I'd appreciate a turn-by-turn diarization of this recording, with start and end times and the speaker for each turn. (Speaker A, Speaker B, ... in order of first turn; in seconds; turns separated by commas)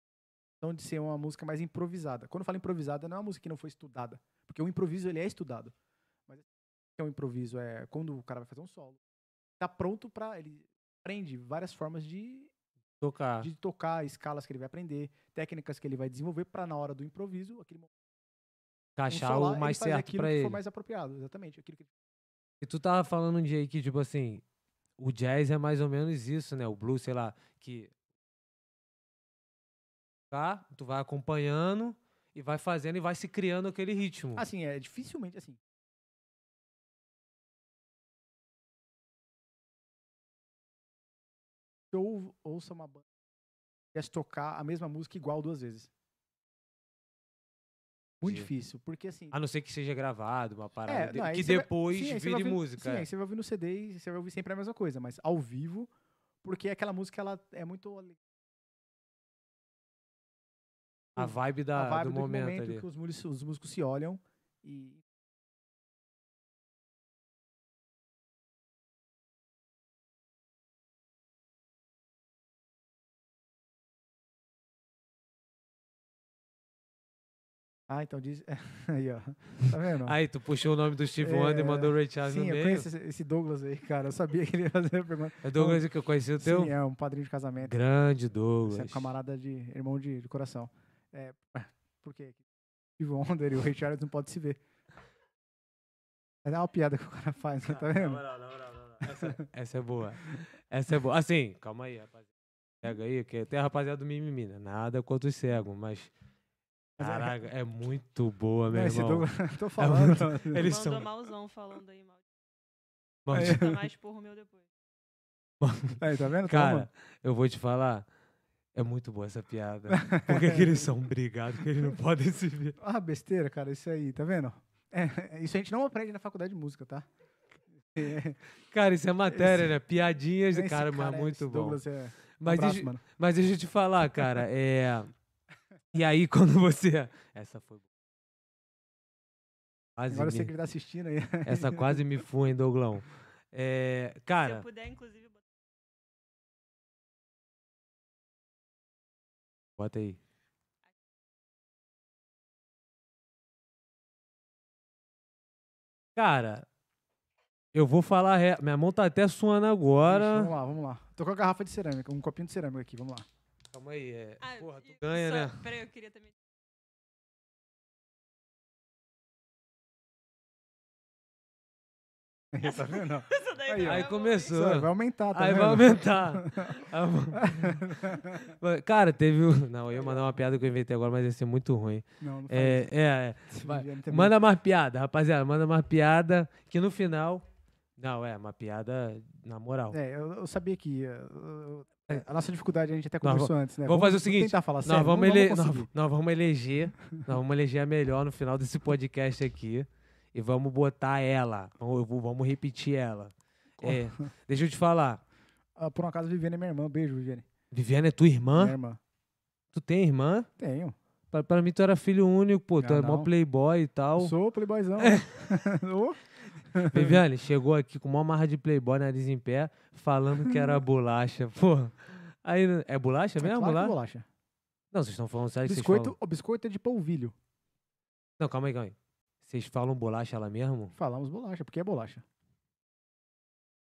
Speaker A: 0.6-5.7, Speaker A: 6.3-9.0, Speaker A: 9.6-12.5, Speaker B: 13.0-13.5, Speaker A: 13.4-17.9, Speaker B: 19.0-20.6, Speaker A: 19.1-21.9, Speaker B: 22.6-24.4, Speaker B: 25.0-27.9, Speaker B: 30.3-34.4, Speaker A: 34.4-35.6, Speaker A: 41.9-43.0, Speaker A: 43.9-45.9, Speaker A: 48.2-49.3, Speaker B: 48.2-48.5, Speaker B: 49.3-53.1, Speaker A: 50.9-55.9, Speaker A: 56.4-58.2, Speaker B: 61.1-62.8, Speaker A: 61.1-65.0, Speaker A: 77.9-80.2, Speaker B: 80.0-82.8, Speaker A: 81.2-85.8, Speaker B: 85.4-86.7, Speaker A: 86.4-87.8, Speaker B: 87.6-89.1, Speaker A: 88.7-92.4, Speaker A: 93.0-94.6, Speaker A: 96.4-98.2, Speaker B: 97.7-102.3, Speaker A: 99.0-99.4, Speaker B: 102.8-106.1, Speaker A: 107.0-107.4, Speaker B: 107.0-111.1, Speaker A: 108.7-110.7, Speaker C: 110.6-112.2, Speaker B: 113.2-113.6, Speaker C: 113.3-114.7, Speaker A: 113.3-113.9, Speaker B: 115.6-118.1, Speaker A: 116.0-116.9, Speaker B: 118.7-122.8, Speaker A: 119.9-120.9, Speaker A: 122.8-127.1, Speaker A: 127.8-128.4, Speaker B: 128.7-131.8, Speaker A: 129.3-129.7, Speaker A: 130.5-133.0, Speaker B: 132.4-135.1, Speaker B: 135.9-137.8, Speaker B: 140.0-140.5, Speaker A: 140.1-142.1, Speaker B: 141.4-144.7, Speaker C: 144.4-145.4, Speaker B: 149.8-150.2, Speaker B: 156.2-156.7, Speaker B: 157.7-160.5, Speaker A: 160.0-163.3, Speaker B: 163.7-165.6, Speaker C: 164.4-166.3, Speaker A: 172.5-176.7, Speaker C: 172.7-174.5, Speaker B: 173.8-187.4, Speaker A: 177.3-178.4, Speaker A: 179.9-180.3, Speaker A: 182.2-182.9, Speaker A: 183.5-184.3, Speaker B: 188.0-190.0, Speaker A: 189.9-195.9, Speaker B: 193.2-205.2, Speaker A: 203.8-204.2, Speaker A: 205.8-207.4, Speaker B: 207.7-208.8, Speaker A: 208.5-209.0, Speaker B: 209.7-210.5, Speaker A: 210.6-210.9, Speaker B: 211.3-214.3, Speaker A: 212.8-213.3, Speaker A: 214.2-216.2, Speaker B: 215.0-215.4, Speaker A: 216.7-217.2, Speaker B: 216.8-223.9, Speaker A: 220.4-220.8, Speaker A: 223.4-224.2, Speaker B: 224.9-226.2, Speaker A: 225.6-227.3, Speaker B: 228.4-230.9, Speaker A: 230.9-232.2